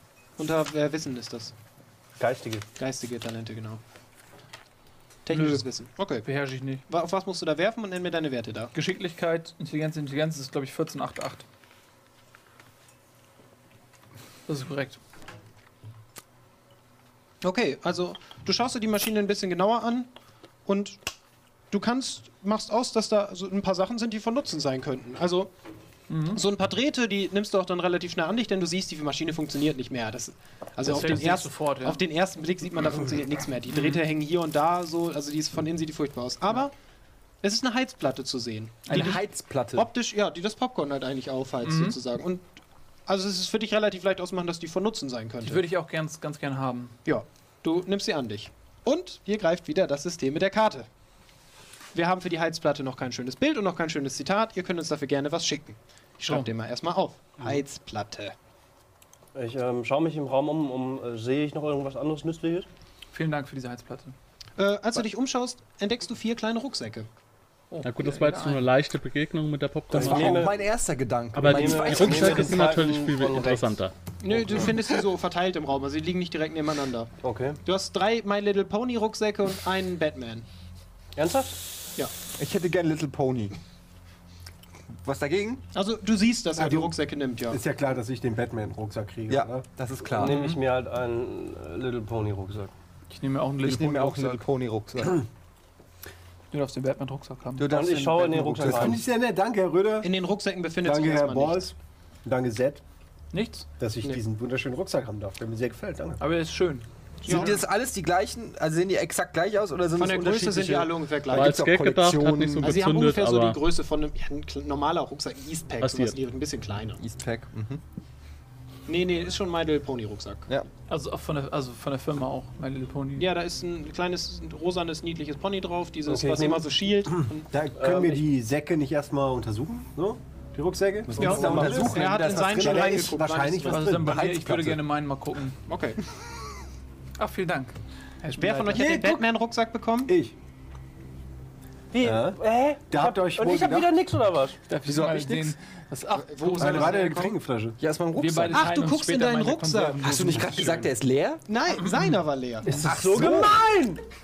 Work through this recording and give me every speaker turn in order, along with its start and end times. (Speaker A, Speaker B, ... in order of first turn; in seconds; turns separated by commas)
Speaker A: 0.4-1.5, Speaker B: 2.2-2.6, Speaker A: 2.8-3.8, Speaker A: 5.2-6.2, Speaker C: 5.3-5.6, Speaker C: 6.2-6.8, Speaker A: 6.9-8.7, Speaker C: 8.7-11.4, Speaker C: 14.5-15.0, Speaker A: 17.4-20.1, Speaker A: 20.6-21.0, Speaker A: 21.7-25.5, Speaker C: 26.1-26.4, Speaker A: 26.3-36.7, Speaker C: 30.8-32.0, Speaker C: 33.7-34.0, Speaker A: 37.4-42.5, Speaker C: 38.9-39.2, Speaker D: 38.9-39.9, Speaker C: 41.6-42.0, Speaker A: 43.1-45.6, Speaker C: 45.4-46.9, Speaker A: 47.0-50.9, Speaker A: 51.9-58.3, Speaker B: 59.3-62.7, Speaker C: 63.1-64.2, Speaker A: 64.6-67.1, Speaker C: 67.7-68.6, Speaker E: 67.8-70.5, Speaker B: 69.9-70.6, Speaker D: 69.9-72.8, Speaker E: 71.3-73.9, Speaker B: 71.4-73.8, Speaker A: 74.2-77.1, Speaker B: 74.3-74.7, Speaker B: 77.2-77.6, Speaker A: 77.6-80.5, Speaker B: 81.2-81.5, Speaker D: 82.3-83.5, Speaker D: 85.0-85.6, Speaker A: 85.7-87.6, Speaker F: 86.6-86.9, Speaker F: 87.5-89.7, Speaker D: 89.3-90.4, Speaker B: 90.1-92.7, Speaker C: 90.2-90.6, Speaker C: 93.1-94.4, Speaker D: 93.6-95.2, Speaker C: 96.5-98.0, Speaker D: 97.6-99.0, Speaker B: 97.6-99.0, Speaker F: 98.7-100.1, Speaker A: 100.0-101.7, Speaker F: 100.8-102.8, Speaker C: 103.3-103.7, Speaker F: 103.8-106.2, Speaker C: 106.2-106.9, Speaker A: 107.2-107.6, Speaker D: 107.2-112.8, Speaker A: 109.9-111.5, Speaker E: 111.3-113.6, Speaker A: 112.6-117.0, Speaker E: 115.8-116.2, Speaker D: 117.0-117.8, Speaker A: 118.9-120.5, Speaker C: 120.9-123.3, Speaker A: 123.2-127.5, Speaker B: 126.0-126.7, Speaker F: 127.5-134.3, Speaker B: 127.8-128.2, Speaker D: 131.1-133.1, Speaker A: 131.2-133.9, Speaker B: 131.2-132.0, Speaker C: 133.6-135.6, Speaker D: 134.0-134.8, Speaker A: 135.7-136.0, Speaker C: 137.2-138.9, Speaker A: 138.3-140.1, Speaker F: 138.7-139.2, Speaker F: 140.1-140.3, Speaker B: 141.9-144.6, Speaker F: 142.0-143.9, Speaker C: 144.7-147.1, Speaker D: 144.8-145.5, Speaker A: 146.1-147.3, Speaker F: 146.6-147.8, Speaker D: 147.8-148.7, Speaker C: 148.2-150.9, Speaker A: 148.5-150.1, Speaker D: 150.0-151.4, Speaker A: 151.5-152.8, Speaker C: 151.7-152.8, Speaker B: 152.6-154.0, Speaker D: 152.8-153.6